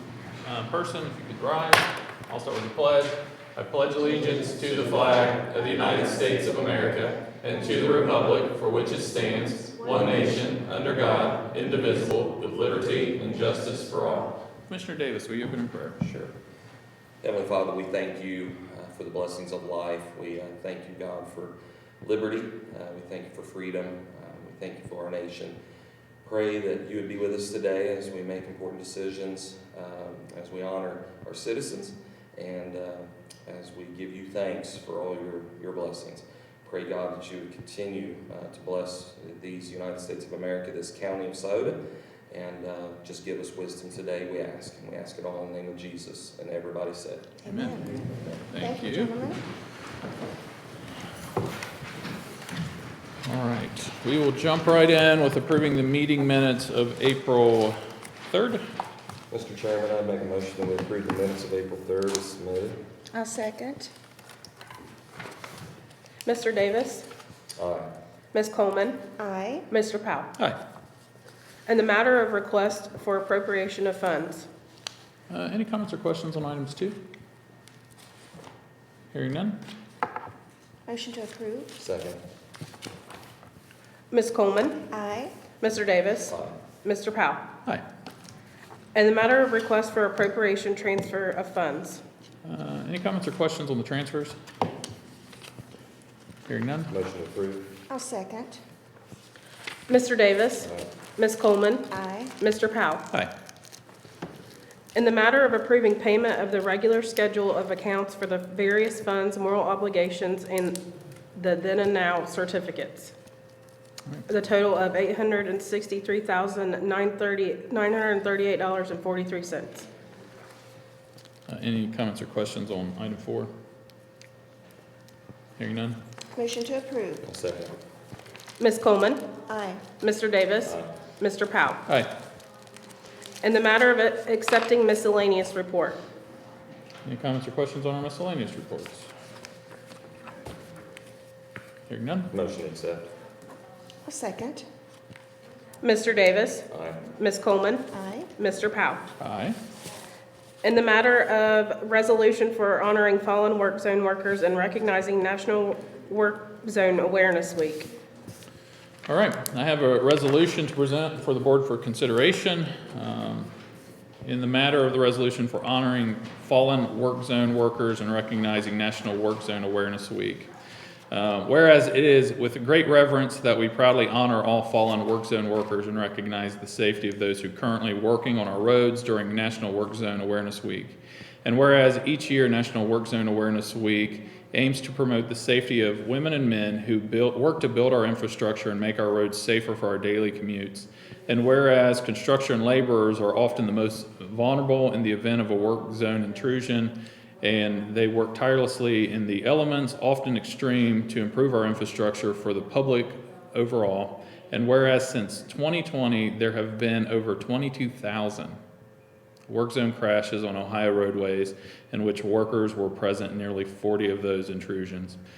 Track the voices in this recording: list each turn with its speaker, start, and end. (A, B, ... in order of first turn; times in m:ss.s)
0:00.4-0:16.0 A
0:16.0-0:16.3 B
0:17.2-0:25.6 B
0:26.2-0:47.4 B
0:47.4-0:49.4 C
0:47.4-0:47.9 A
0:48.5-0:49.2 A
0:53.2-0:58.6 A
0:59.3-1:02.8 B
1:03.1-1:03.9 C
1:06.2-1:07.1 D
1:07.6-1:07.9 B
1:08.3-1:09.0 D
1:09.2-1:09.7 C
1:09.7-1:10.3 D
1:11.7-1:14.5 D
1:15.3-1:17.0 A
1:19.1-1:19.6 A
1:20.9-1:21.7 C
1:21.8-1:22.2 B
1:24.1-1:24.8 D
1:24.9-1:25.3 C
1:25.6-1:27.4 D
1:26.3-1:26.6 B
1:28.9-1:32.0 D
1:32.4-1:34.4 A
1:36.5-1:36.9 A
1:36.9-1:37.7 B
1:37.9-1:38.6 C
1:39.9-1:43.0 D
1:41.9-1:42.3 C
1:45.0-1:50.8 D
1:51.3-1:53.1 D
1:54.3-1:59.9 D
2:01.5-2:03.5 A
2:05.6-2:06.0 A
2:06.3-2:07.3 C
2:07.2-2:07.8 B
2:08.6-2:09.2 D
2:09.5-2:09.8 C
2:10.0-2:11.8 D
2:13.4-2:16.0 D
2:17.0-2:19.1 A
2:21.9-2:22.3 A
2:22.3-2:23.1 B
2:24.1-2:24.7 C
2:25.8-2:29.0 D
2:26.7-2:27.0 B
2:27.9-2:28.3 C
2:29.2-2:29.6 A
2:30.6-2:37.9 D
2:39.1-2:43.5 A
2:44.2-2:50.5 A
2:51.1-3:28.6 A
3:29.5-3:35.2 A